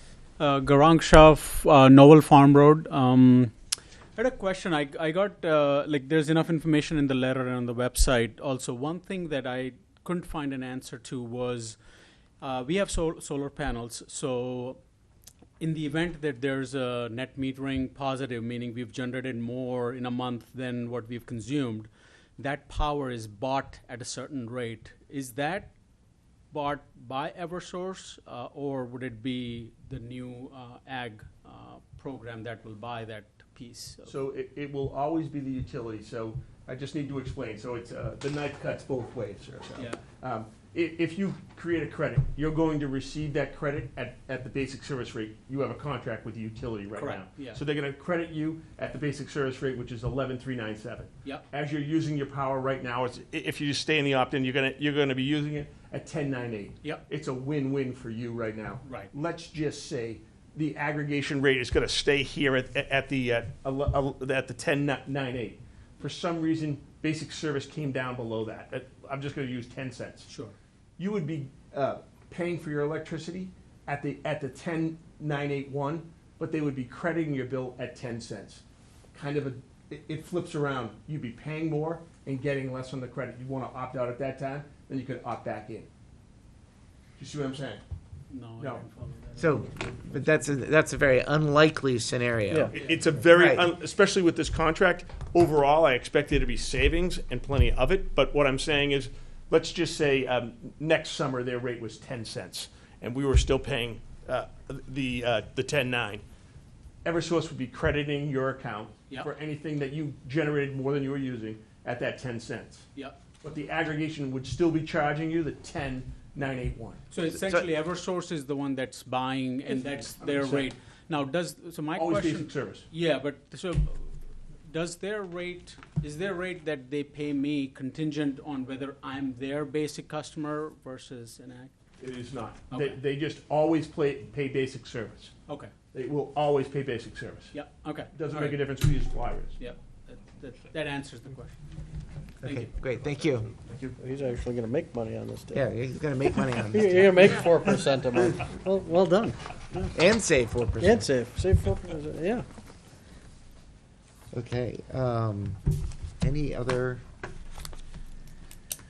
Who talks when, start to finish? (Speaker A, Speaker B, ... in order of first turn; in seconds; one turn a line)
Speaker A: 0.4-3.5
Speaker A: 4.2-11.8
Speaker A: 12.4-14.8
Speaker A: 15.6-25.7
Speaker A: 26.5-34.1
Speaker B: 34.0-70.3
Speaker A: 39.8-40.0
Speaker A: 46.9-47.6
Speaker A: 58.8-59.1
Speaker A: 70.3-70.5
Speaker B: 71.0-78.6
Speaker B: 79.1-85.9
Speaker B: 87.2-87.8
Speaker A: 88.3-90.3
Speaker B: 88.6-88.8
Speaker C: 89.4-93.7
Speaker B: 92.7-106.2
Speaker B: 107.0-112.9
Speaker B: 113.4-117.0
Speaker A: 117.1-124.1
Speaker C: 117.3-117.7
Speaker B: 120.2-120.7
Speaker B: 122.0-122.9
Speaker A: 124.7-131.7
Speaker B: 132.0-135.3
Speaker A: 132.7-133.0
Speaker A: 135.5-135.7
Speaker B: 135.9-137.6
Speaker A: 137.5-138.7
Speaker B: 138.1-139.6
Speaker A: 139.6-141.6
Speaker C: 142.4-143.5
Speaker A: 142.4-142.7
Speaker B: 143.7-143.9
Speaker D: 144.0-145.7
Speaker C: 145.5-147.4
Speaker D: 146.6-149.9
Speaker C: 149.9-151.1
Speaker D: 150.8-152.5
Speaker C: 154.3-155.6
Speaker C: 156.2-157.0